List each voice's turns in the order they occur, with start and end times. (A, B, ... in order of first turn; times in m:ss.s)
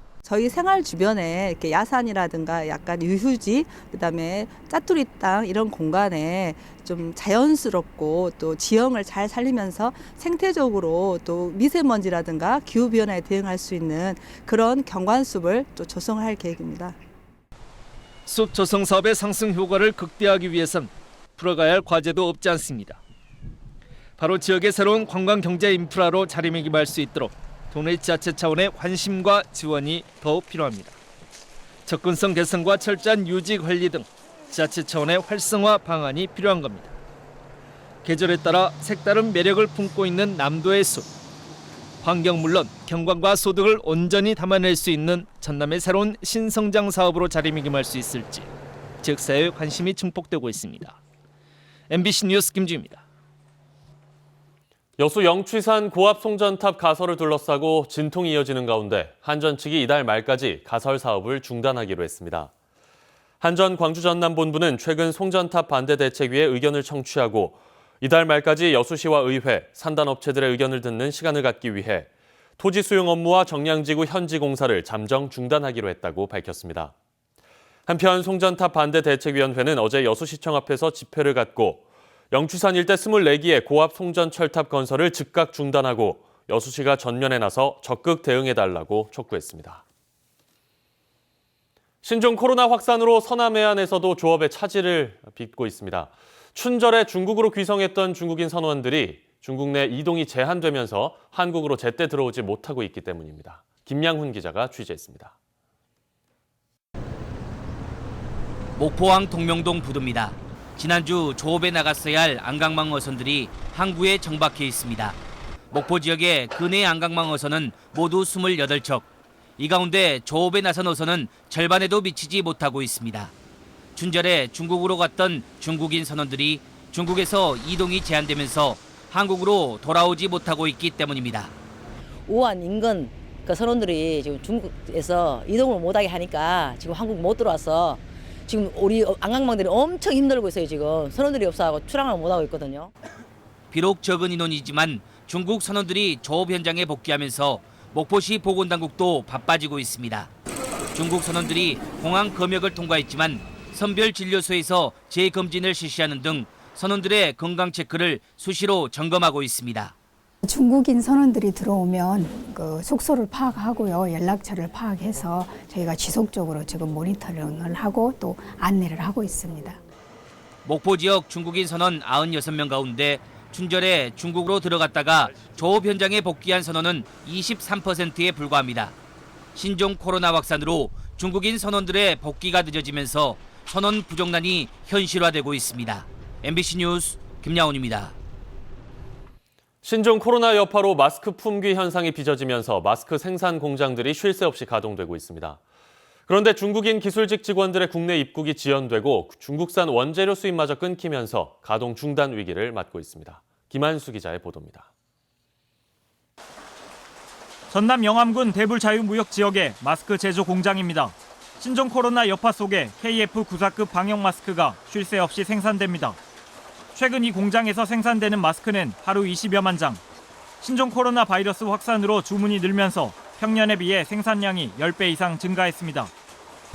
0:00.2-0:17.0 A
0:18.2-0:23.0 B
0:24.2-0:31.0 B
0:31.8-0:37.0 B
0:38.0-0:41.1 B
0:42.0-0:48.5 B
0:49.0-0:51.0 B
0:51.9-0:53.0 B
0:55.0-1:02.5 C
1:03.4-1:16.9 C
1:17.9-1:29.8 C
1:32.0-1:45.3 C
1:48.8-1:55.2 D
1:55.7-1:59.0 D
1:59.6-2:03.3 D
2:04.0-2:11.5 D
2:12.3-2:22.9 E
2:23.7-2:30.3 D
2:30.9-2:39.9 D
2:40.4-2:49.8 F
2:50.6-2:58.9 D
2:59.5-3:08.1 D
3:09.8-3:15.6 C
3:16.3-3:24.9 C
3:27.7-3:36.2 G
3:36.9-3:40.0 G
3:40.6-3:46.1 G